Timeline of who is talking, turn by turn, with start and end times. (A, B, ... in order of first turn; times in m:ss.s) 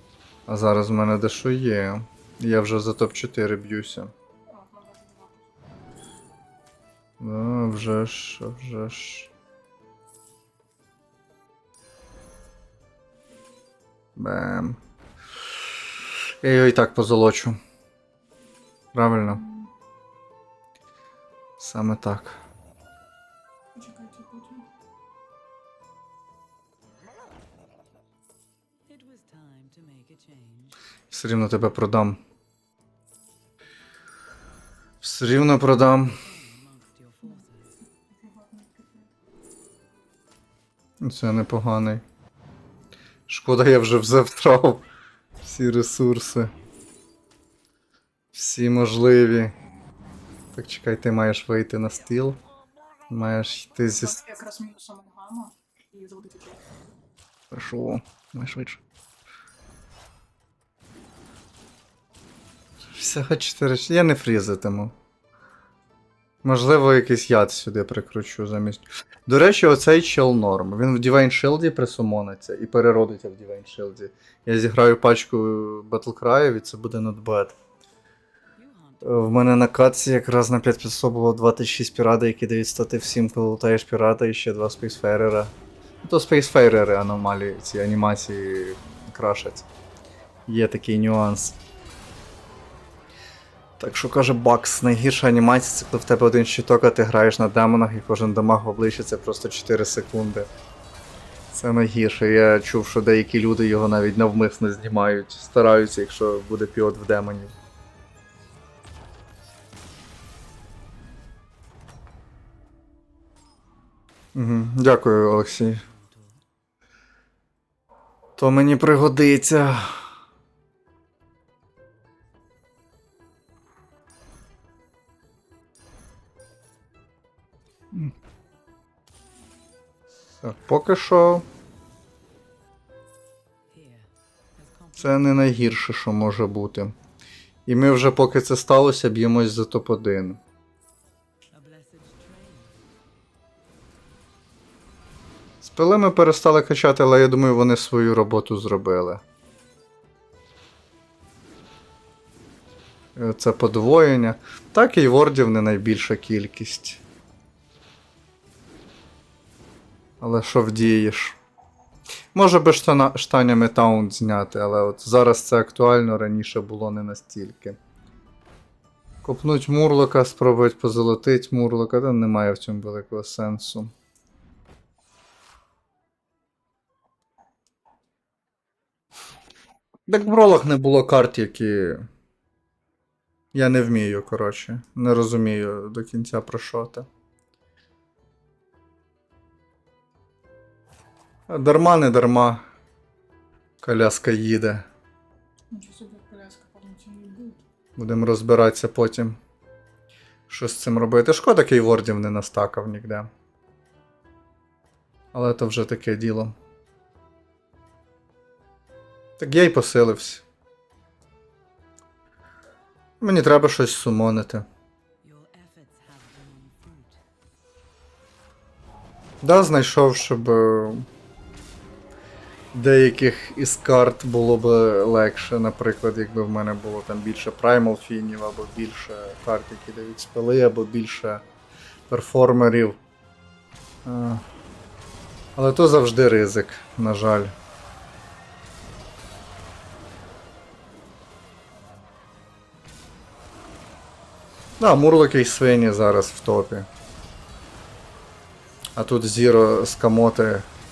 0:00.5-0:04.1 A
0:04.5-0:05.4 B
0:07.2-0:09.3 A
0:14.2-0:14.8 A
0:16.4-0:17.6 A
0:18.9-0:19.4 A
0:19.2-0:19.7 B
0:21.6-0:22.4 A
0:23.7-0:24.7 B
0:28.8-0:30.8 C
0:31.1-0:32.2 A
0:35.0-0:36.2 A
0:35.9-0:37.8 C
0:38.1-0:39.1 B
0:41.0-0:42.0 A
0:43.3-0:44.8 A
0:45.4-0:46.5 A
0:48.3-0:49.5 A
0:50.5-0:52.4 A
0:53.1-0:54.2 A
0:53.8-0:56.7 B
0:57.5-0:58.8 A
1:02.9-1:04.9 A
1:06.4-1:17.6 A
1:18.6-1:19.7 C
1:19.0-1:29.6 A
1:30.5-1:31.6 A
1:33.8-1:40.5 A
1:41.5-1:47.5 A
1:54.3-1:55.8 A
1:55.3-1:56.4 C
1:58.4-2:00.0 A
2:10.4-2:11.5 A
2:13.7-2:15.5 C
2:15.0-2:16.9 A
2:17.7-2:20.4 A
2:21.5-2:23.0 C
2:25.6-2:29.2 A
2:33.2-2:37.0 A
2:40.2-2:41.4 A
2:42.3-2:47.8 A
2:49.2-2:53.9 A
3:00.1-3:02.1 A
3:03.5-3:07.1 A
3:11.5-3:12.6 A
3:13.8-3:14.8 A
3:15.7-3:17.6 B
3:18.0-3:19.4 A
3:20.5-3:23.3 A
3:25.3-3:26.5 A
3:29.4-3:30.4 A
3:33.2-3:34.6 A
3:35.2-3:37.2 C
3:39.4-3:41.1 A
3:42.7-3:51.4 A
3:52.1-3:53.0 A
3:54.0-3:54.4 A
3:55.6-3:57.5 A
4:04.8-4:06.9 A
4:09.0-4:10.7 A